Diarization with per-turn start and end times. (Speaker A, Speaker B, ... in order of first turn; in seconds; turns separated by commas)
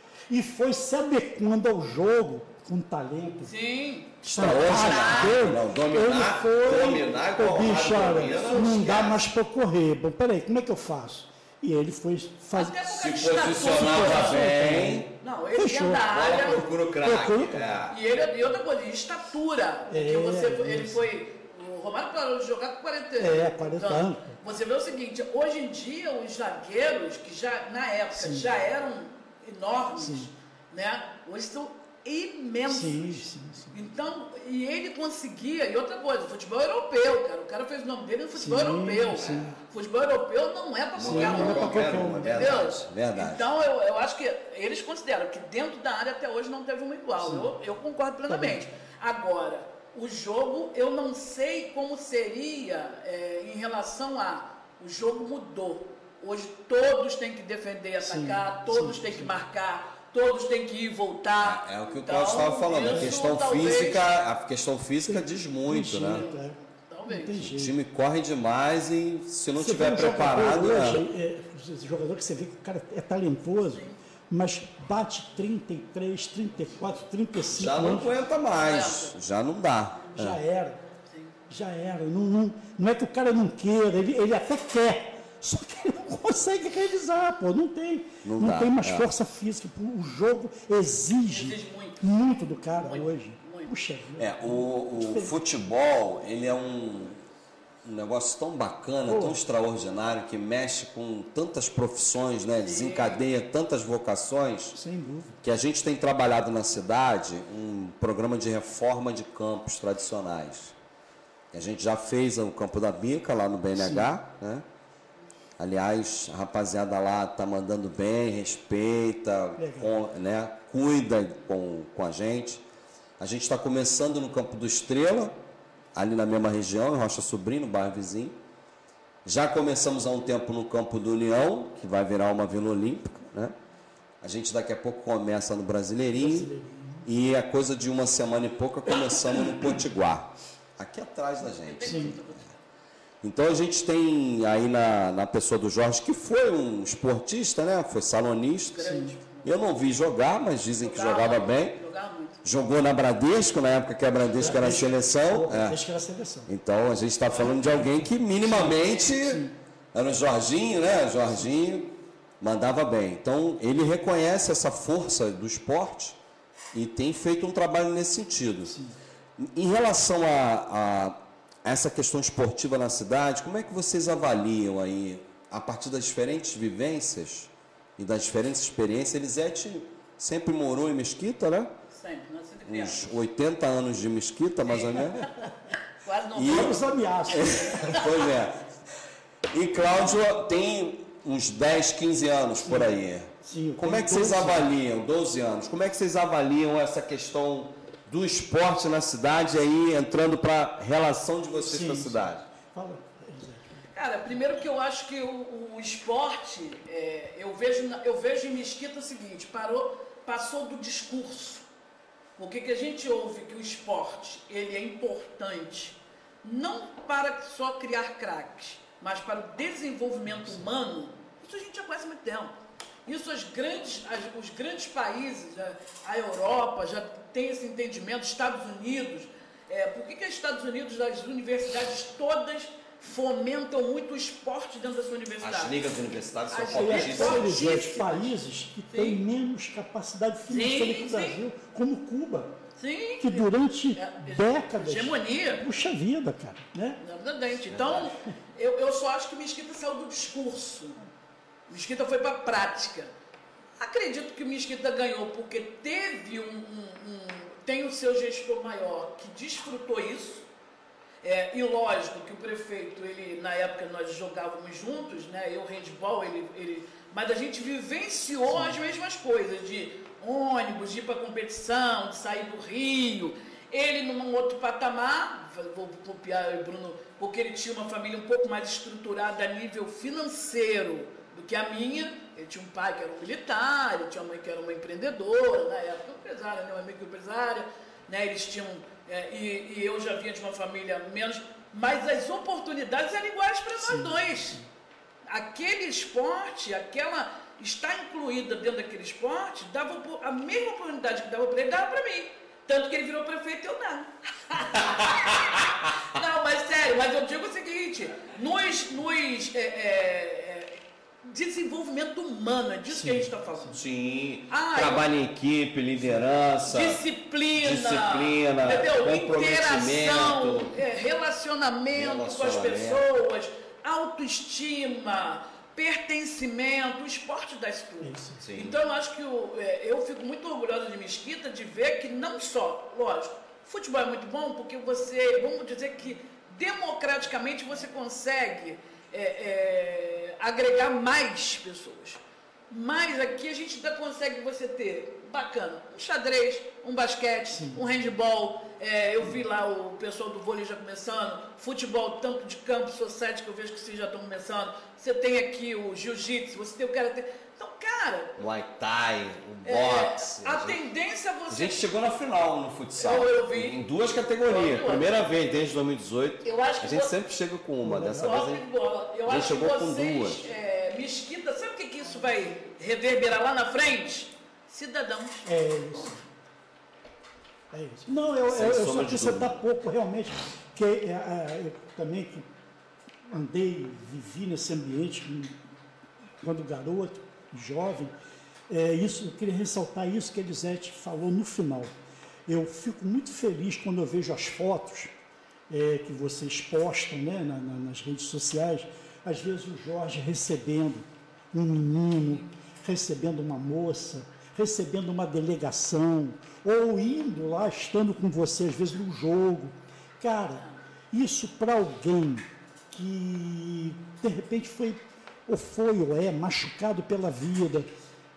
Speaker A: 0.3-3.5, Speaker B: 3.4-5.4, Speaker A: 4.2-17.7, Speaker C: 4.2-9.2, Speaker B: 8.1-9.2, Speaker B: 12.5-14.5, Speaker C: 13.0-15.1, Speaker B: 15.2-16.7, Speaker C: 16.1-17.9, Speaker B: 17.9-64.1, Speaker A: 19.9-21.1, Speaker A: 23.2-24.3, Speaker A: 28.1-28.5, Speaker A: 29.9-30.3, Speaker A: 32.7-33.8, Speaker A: 38.3-39.6, Speaker C: 39.2-39.5, Speaker C: 41.0-43.5, Speaker A: 41.0-42.5, Speaker A: 47.2-47.5, Speaker A: 48.3-48.6, Speaker A: 58.0-59.4, Speaker C: 61.4-66.3, Speaker A: 62.8-63.4, Speaker A: 65.0-67.8, Speaker B: 66.8-67.5, Speaker C: 67.4-71.0, Speaker A: 69.6-78.2, Speaker B: 73.7-74.0, Speaker C: 77.5-80.4, Speaker B: 78.5-79.1, Speaker A: 80.1-80.8, Speaker B: 81.1-81.3, Speaker A: 81.5-95.3, Speaker C: 88.2-89.1, Speaker B: 91.2-92.0, Speaker B: 92.8-93.7, Speaker C: 94.2-97.2, Speaker C: 97.8-104.8, Speaker A: 99.0-99.4, Speaker B: 102.6-103.2, Speaker A: 104.7-105.3, Speaker C: 105.4-110.7, Speaker C: 111.5-114.6, Speaker A: 113.7-114.1, Speaker C: 115.6-122.6, Speaker A: 119.6-119.9, Speaker C: 123.2-125.3, Speaker C: 125.9-128.4, Speaker C: 129.2-133.6, Speaker C: 134.2-136.5, Speaker A: 136.1-137.1, Speaker C: 137.1-142.4, Speaker A: 139.4-139.7, Speaker B: 141.5-142.5, Speaker A: 141.8-142.2, Speaker C: 143.2-151.8, Speaker B: 148.7-149.5, Speaker A: 148.8-149.1, Speaker B: 150.8-152.4, Speaker C: 152.4-155.8, Speaker A: 154.4-156.5, Speaker C: 156.5-166.2, Speaker A: 157.3-159.5, Speaker C: 166.7-168.7, Speaker A: 168.7-168.9, Speaker C: 169.4-181.7, Speaker B: 181.9-183.1, Speaker C: 182.7-185.2, Speaker B: 184.7-185.3, Speaker B: 186.0-188.2, Speaker C: 186.3-188.6, Speaker A: 186.4-188.0, Speaker C: 189.5-202.4, Speaker A: 192.6-194.7, Speaker A: 201.5-203.9, Speaker B: 203.9-211.6, Speaker B: 212.4-222.5, Speaker A: 220.3-220.6, Speaker B: 223.1-235.8, Speaker C: 235.4-237.8, Speaker B: 236.5-238.3, Speaker A: 236.7-242.6, Speaker B: 238.9-239.2, Speaker B: 240.5-241.4, Speaker B: 242.8-245.6, Speaker A: 243.2-247.0, Speaker B: 247.0-251.0, Speaker C: 247.7-248.1, Speaker B: 251.7-253.1, Speaker B: 253.8-260.4, Speaker B: 261.2-294.6, Speaker A: 268.5-268.8, Speaker A: 293.8-294.6, Speaker B: 295.3-313.8, Speaker A: 312.9-313.7, Speaker C: 313.7-317.0, Speaker B: 314.5-315.1, Speaker B: 316.7-358.4, Speaker C: 317.5-320.8, Speaker C: 321.9-323.0, Speaker A: 328.0-328.4, Speaker C: 328.4-328.8, Speaker A: 347.5-347.8, Speaker C: 358.4-360.8, Speaker B: 359.6-361.9, Speaker C: 361.5-368.6, Speaker B: 363.0-363.8, Speaker B: 364.5-365.1, Speaker B: 366.4-367.1, Speaker A: 367.8-368.4, Speaker B: 368.2-375.5, Speaker C: 369.2-370.4, Speaker A: 375.4-376.2, Speaker A: 377.7-382.5, Speaker C: 378.5-379.6, Speaker A: 383.3-385.6, Speaker A: 386.4-388.1, Speaker A: 388.7-391.9, Speaker A: 392.5-395.1, Speaker A: 395.7-417.9